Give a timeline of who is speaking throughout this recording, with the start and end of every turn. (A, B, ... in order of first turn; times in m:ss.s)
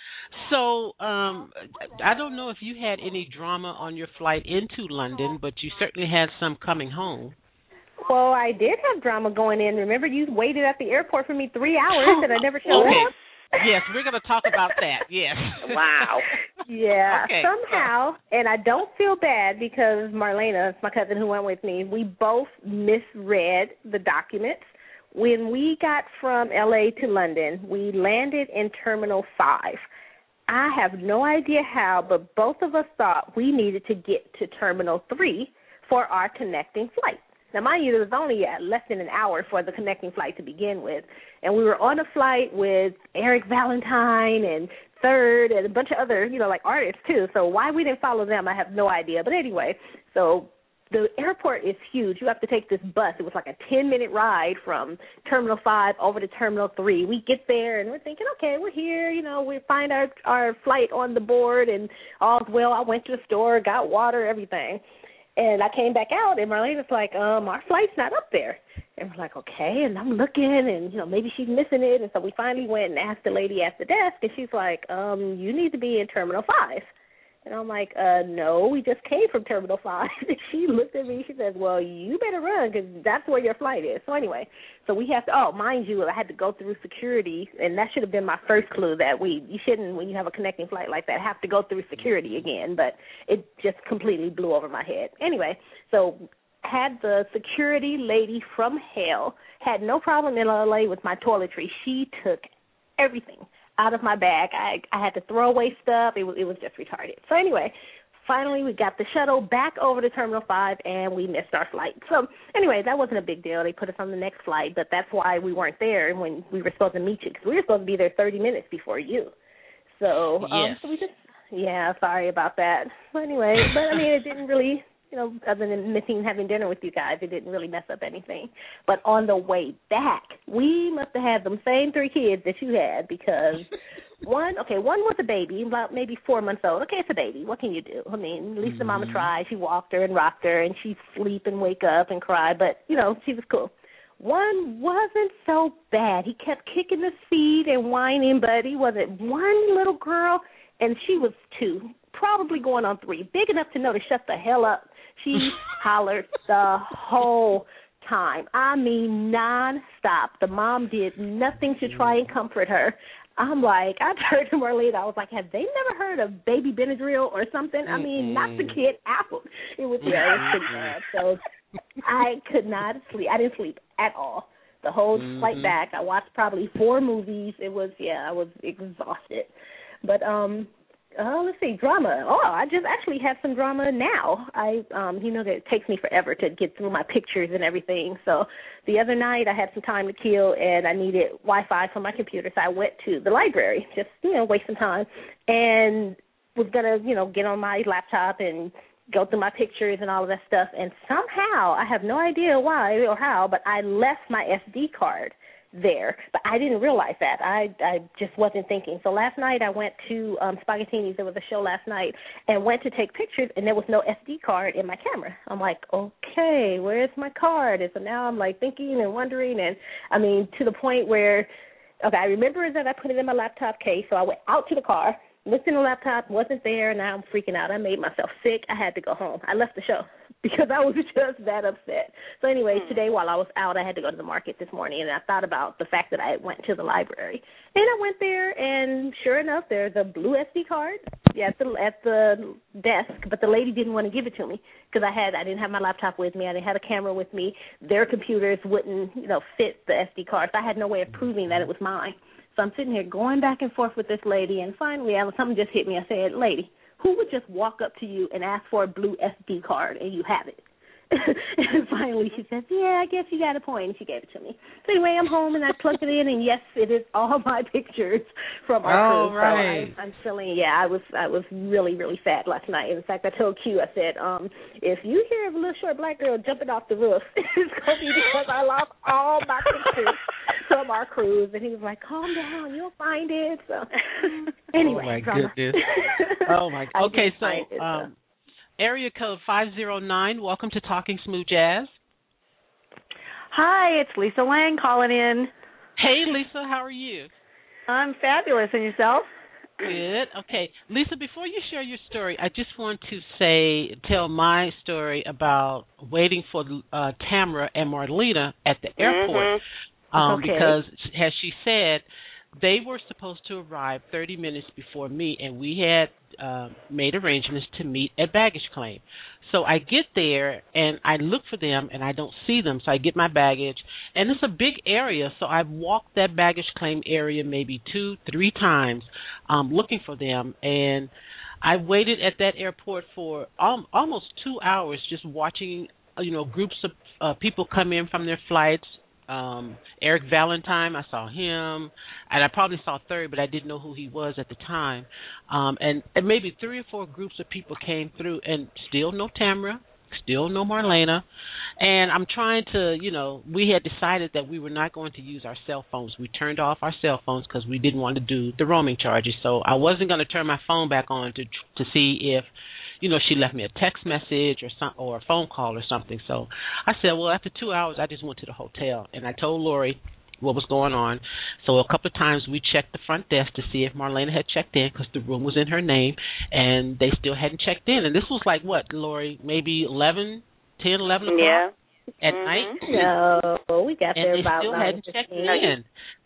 0:00.3-0:07.4 A
0:08.0-0:13.7 B
0:11.9-0:15.8 A
0:12.7-0:13.2 C
0:15.6-0:16.3 C
0:16.6-0:29.8 B
0:17.1-0:17.9 A
0:30.5-1:04.8 B
1:05.4-1:16.9 B
1:17.4-1:59.3 B
2:00.0-2:51.4 B
2:00.4-2:01.0 A
2:18.6-2:19.3 A
2:41.8-2:42.2 A
2:47.9-2:48.8 A
2:50.0-2:51.0 A
2:52.0-2:59.5 B
2:55.2-2:55.7 A
3:00.0-3:41.5 B
3:42.0-4:48.1 B
3:52.7-3:53.0 C
4:28.8-4:29.9 A
4:44.8-4:45.8 A
4:46.5-4:48.1 A
4:48.8-4:52.0 A
4:53.5-4:55.5 D
4:56.0-4:57.3 A
4:57.9-4:59.3 D
4:59.8-5:09.6 A
5:09.0-5:09.6 C
5:10.1-5:12.0 A
5:10.2-5:10.8 B
5:12.6-5:31.1 A
5:31.6-5:51.2 A
5:51.8-6:02.5 A
6:03.0-6:21.6 A
6:21.3-6:21.7 C
6:22.2-6:23.1 A
6:22.3-6:22.8 C
6:22.9-6:25.7 B
6:24.2-6:25.9 A